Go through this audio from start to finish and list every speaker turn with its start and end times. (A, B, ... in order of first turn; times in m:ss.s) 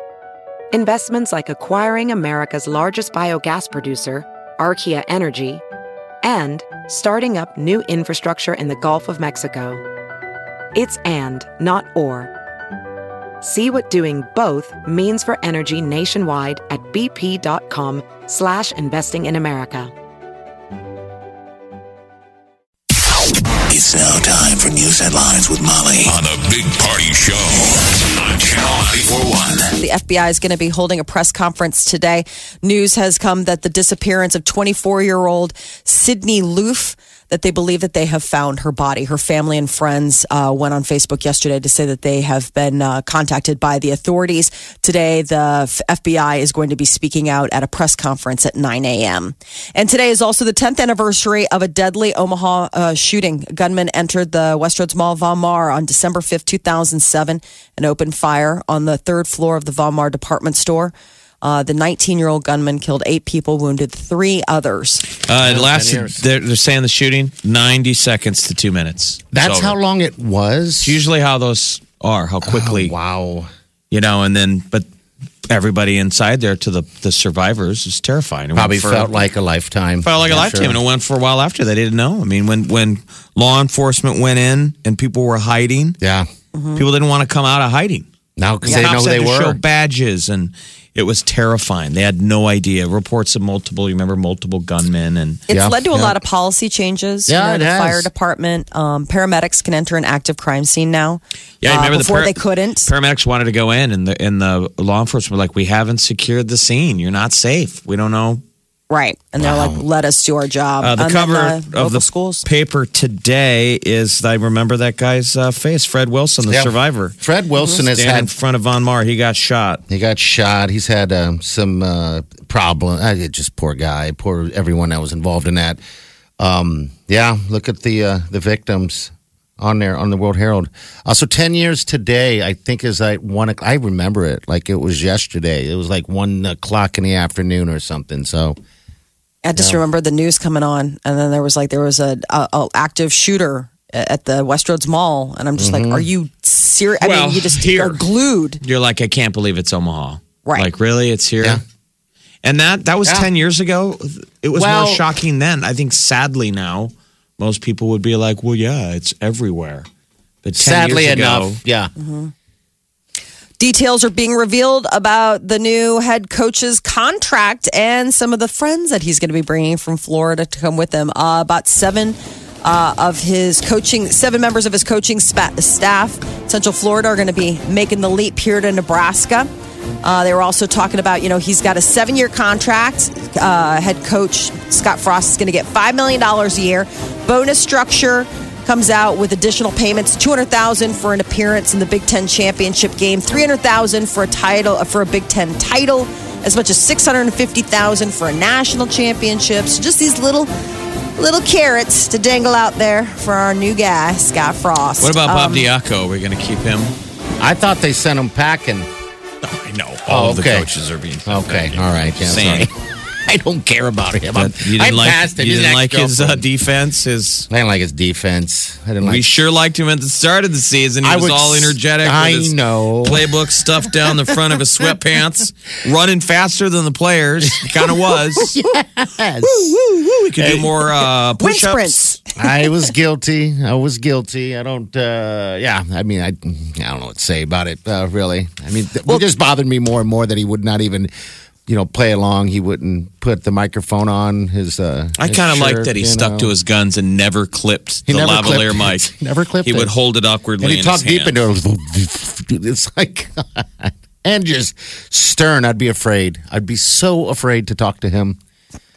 0:00.7-0:05.6 A
0:06.2-0:09.8 A
0:10.7-0:12.3 A
0:13.4-0:19.9 A
0:23.7-0:29.7 B
0:29.8-1:05.1 C
1:05.2-1:09.8 D
1:05.3-1:06.2 E
1:09.3-1:11.0 E
1:10.8-1:12.9 D
1:12.4-1:13.5 E
1:13.9-1:14.8 D
1:15.5-1:19.2 D
1:18.5-1:20.8 E
1:20.0-1:26.0 D
1:26.0-1:26.3 E
1:26.5-1:26.8 C
1:26.8-1:28.0 D
1:28.4-1:29.6 E
1:28.6-1:35.4 D
1:35.5-1:42.9 C
1:35.5-1:36.2 E
1:37.3-1:38.1 E
1:41.6-1:48.4 D
1:48.9-1:52.4 C
1:49.4-1:49.8 E
1:50.8-1:57.1 D
1:56.4-1:58.3 E
1:57.8-1:59.8 D
1:59.9-2:05.8 E
2:06.4-2:18.6 E
2:19.4-2:28.6 C
2:25.6-2:26.1 E
2:27.0-2:28.0 D
2:28.6-2:31.6 D
2:32.4-2:39.9 D
2:34.5-2:35.0 E
2:40.4-2:41.6 D
2:40.5-2:41.9 E
2:42.0-2:42.3 C
2:43.6-2:59.5 C
3:00.0-3:20.5 C
3:21.2-3:25.7 C
3:25.0-3:26.9 D
3:27.4-3:28.9 E
3:29.4-3:32.7 D
3:30.1-3:30.7 E
3:31.3-3:32.7 E
3:33.2-3:36.4 E
3:34.3-3:37.5 D
3:37.5-3:39.3 E
3:39.0-3:48.5 D
3:41.0-3:43.2 E
3:48.3-3:49.8 E
3:49.4-3:50.1 C
3:50.0-3:52.0 D
3:50.4-3:50.9 E
3:51.4-3:52.3 C
3:52.4-4:01.1 E
4:01.7-4:06.5 E
4:05.2-4:09.1 D
4:08.1-4:09.9 E
4:09.6-4:11.4 D
4:10.6-4:18.4 E